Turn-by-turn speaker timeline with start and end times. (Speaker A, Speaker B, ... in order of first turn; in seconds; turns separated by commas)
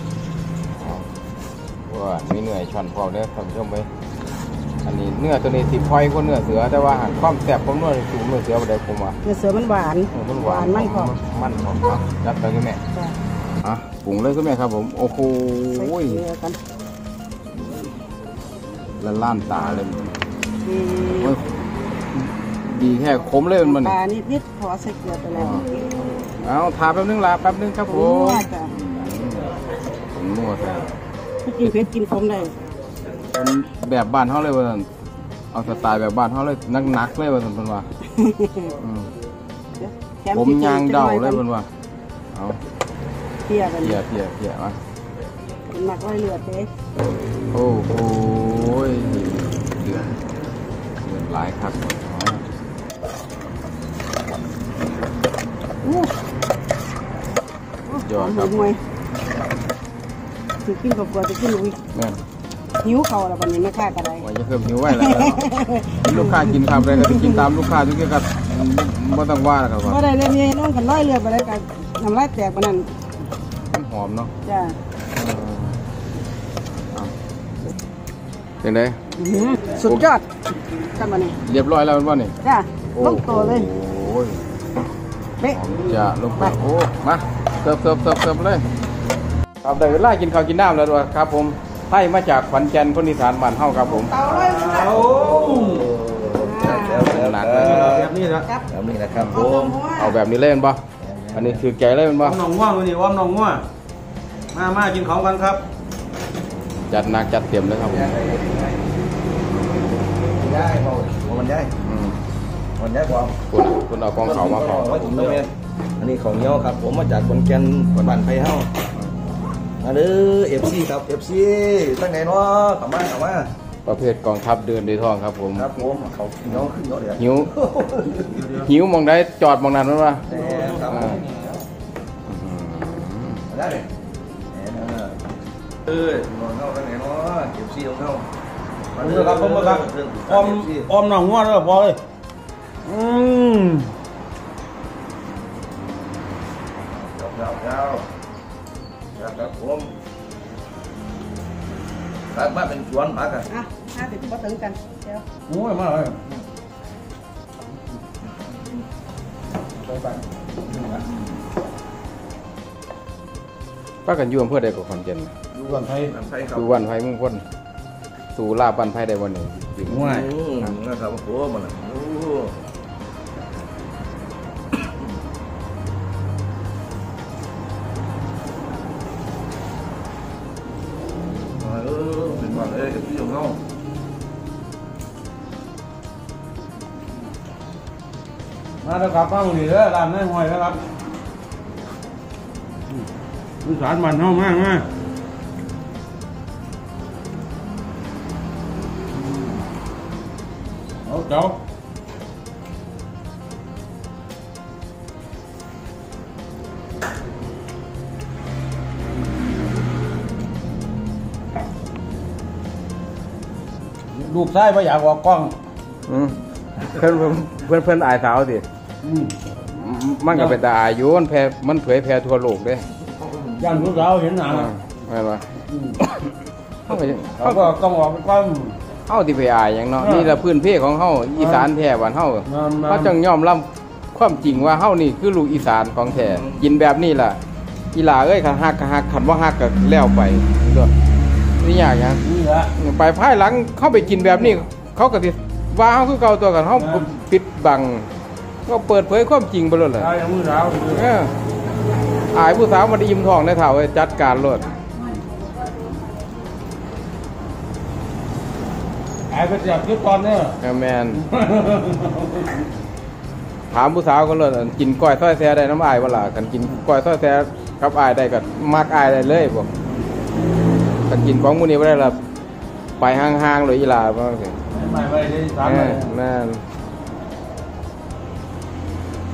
Speaker A: 0.7-1.1, Speaker A: 1.9-3.9, Speaker A: 4.8-9.2, Speaker B: 9.2-11.1, Speaker A: 10.1-12.8, Speaker A: 13.6-16.2, Speaker B: 15.7-16.6, Speaker A: 19.0-20.0, Speaker B: 20.6-21.4, Speaker A: 21.2-21.4, Speaker A: 22.1-23.9, Speaker B: 23.6-26.2, Speaker A: 25.4-25.7, Speaker A: 26.4-29.5, Speaker B: 27.9-28.7, Speaker A: 30.1-30.9, Speaker B: 31.4-32.5, Speaker A: 33.3-34.9, Speaker A: 35.5-37.9, Speaker B: 38.1-38.8, Speaker A: 38.8-39.1, Speaker B: 39.8-41.4, Speaker A: 40.3-41.7, Speaker A: 42.3-42.6, Speaker B: 43.5-44.0, Speaker A: 43.7-44.8, Speaker B: 45.7-46.7, Speaker A: 47.5-50.2, Speaker A: 51.0-52.4, Speaker B: 57.9-58.8, Speaker A: 58.0-58.7, Speaker B: 60.6-61.8, Speaker A: 61.9-62.2, Speaker B: 62.8-64.2, Speaker A: 64.2-70.1, Speaker B: 64.9-67.4, Speaker B: 69.8-72.9, Speaker A: 73.7-74.3, Speaker B: 74.4-74.8, Speaker A: 75.1-75.8, Speaker A: 78.6-79.0, Speaker B: 79.2-80.3, Speaker B: 80.8-81.3, Speaker A: 81.4-82.3, Speaker B: 82.4-83.7, Speaker A: 82.9-84.4, Speaker B: 85.4-86.5, Speaker A: 85.5-88.7, Speaker A: 89.6-94.2, Speaker B: 93.8-94.9, Speaker C: 94.2-95.9, Speaker D: 94.8-98.2, Speaker B: 96.3-97.1, Speaker A: 96.9-97.9, Speaker C: 97.5-98.5, Speaker D: 98.7-99.8, Speaker A: 99.2-100.8, Speaker B: 99.3-100.2, Speaker D: 101.0-101.6, Speaker A: 101.3-102.4, Speaker C: 102.2-103.7, Speaker C: 104.5-105.6, Speaker A: 106.9-108.1, Speaker D: 107.8-108.8, Speaker D: 110.3-111.7, Speaker A: 111.8-112.2, Speaker D: 112.8-113.4, Speaker A: 113.5-115.4, Speaker D: 114.2-118.7, Speaker D: 119.8-123.5, Speaker A: 123.8-125.7, Speaker D: 125.5-128.3, Speaker A: 127.2-127.5, Speaker C: 128.1-128.7, Speaker A: 128.5-130.2, Speaker D: 130.3-131.2, Speaker C: 130.3-131.6, Speaker A: 130.9-131.2, Speaker A: 132.3-133.4, Speaker D: 133.5-133.9, Speaker D: 134.5-135.2, Speaker D: 135.8-138.2, Speaker D: 138.9-140.9, Speaker C: 139.0-142.0, Speaker C: 142.8-143.9, Speaker D: 146.9-148.1, Speaker D: 149.2-149.9, Speaker D: 152.3-153.5, Speaker B: 153.5-155.2, Speaker C: 155.5-156.2, Speaker C: 159.9-161.0, Speaker A: 164.1-165.3, Speaker C: 165.5-166.1, Speaker D: 166.0-166.8, Speaker A: 166.5-167.4, Speaker A: 168.3-170.7, Speaker C: 169.8-170.3, Speaker D: 169.9-172.6, Speaker D: 181.6-183.6, Speaker C: 188.8-190.8, Speaker C: 193.6-194.9, Speaker C: 201.0-201.6, Speaker C: 214.1-215.6, Speaker A: 216.1-218.7, Speaker C: 219.0-219.3, Speaker A: 219.6-222.9, Speaker C: 220.3-220.6, Speaker D: 223.1-223.8, Speaker C: 223.6-224.7, Speaker A: 224.5-225.5, Speaker C: 225.7-226.0, Speaker A: 226.9-227.7, Speaker C: 227.3-228.8, Speaker A: 229.1-237.4, Speaker C: 230.0-230.4, Speaker C: 231.4-231.7, Speaker C: 232.5-233.2, Speaker D: 236.2-236.6, Speaker A: 237.9-240.9, Speaker A: 241.6-242.2, Speaker C: 242.2-242.7, Speaker A: 242.7-248.1, Speaker C: 246.8-247.1, Speaker A: 248.7-250.1, Speaker C: 250.0-251.1, Speaker A: 250.8-251.3, Speaker A: 252.3-254.7, Speaker C: 259.3-260.6, Speaker A: 260.6-261.2, Speaker C: 261.2-262.6, Speaker A: 263.7-269.7, Speaker A: 271.1-272.2, Speaker A: 273.0-274.6, Speaker C: 274.7-276.1, Speaker A: 275.6-276.6